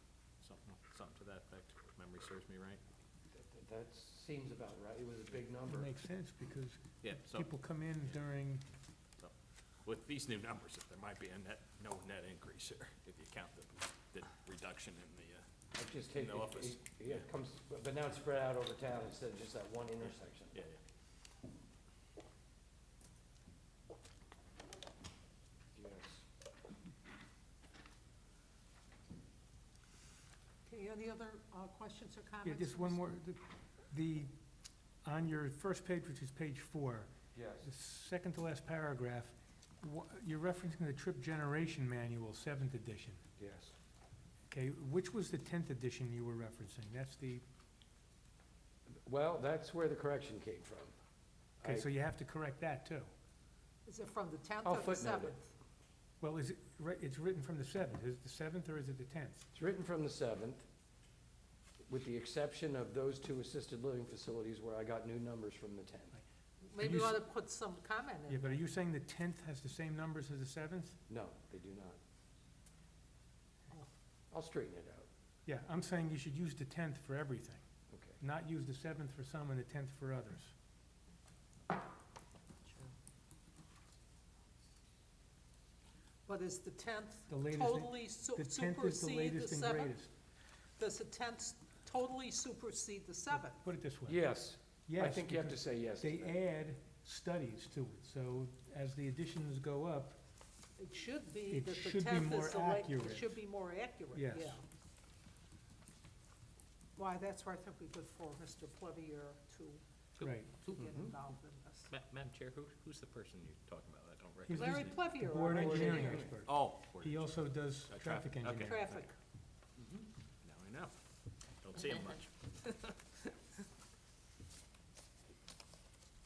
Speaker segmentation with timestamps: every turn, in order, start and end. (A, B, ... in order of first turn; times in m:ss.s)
0:00.4-0:02.8 A
0:03.3-0:05.9 B
0:05.7-0:08.6 C
0:07.0-0:07.5 A
0:09.2-0:15.5 A
0:15.8-0:20.6 B
0:16.1-0:17.2 A
0:20.1-0:20.8 A
0:25.7-0:26.2 B
0:30.7-0:33.0 D
0:32.4-0:34.3 C
0:35.0-0:37.1 C
0:37.3-0:37.7 B
0:37.6-0:43.2 C
0:43.4-0:43.8 B
0:44.5-0:47.4 C
0:48.9-0:50.9 B
0:51.6-0:51.8 B
0:51.6-0:53.1 C
0:53.9-0:55.5 D
0:54.6-0:55.4 B
0:56.2-0:59.5 C
0:59.5-1:00.6 B
1:01.9-1:06.1 B
1:06.6-1:08.6 D
1:06.8-1:07.2 C
1:08.3-1:11.0 C
1:11.1-1:12.0 B
1:14.3-1:15.1 B
1:15.5-1:17.6 C
1:17.9-1:18.2 B
1:18.2-1:20.5 C
1:26.3-1:30.0 D
1:27.3-1:30.1 C
1:30.8-1:33.6 D
1:33.5-1:34.2 C
1:34.1-1:36.3 B
1:34.9-1:40.2 C
1:40.8-1:44.6 D
1:41.5-1:43.4 C
1:44.1-1:44.6 C
1:47.0-1:49.8 D
1:50.2-1:50.5 C
1:50.5-1:51.9 D
1:50.8-1:51.1 B
1:51.9-1:58.8 A
1:54.5-1:59.0 C
1:54.5-1:56.3 D
1:55.5-1:56.3 B
1:58.6-1:59.1 D
1:59.8-2:00.9 A
2:01.5-2:03.0 A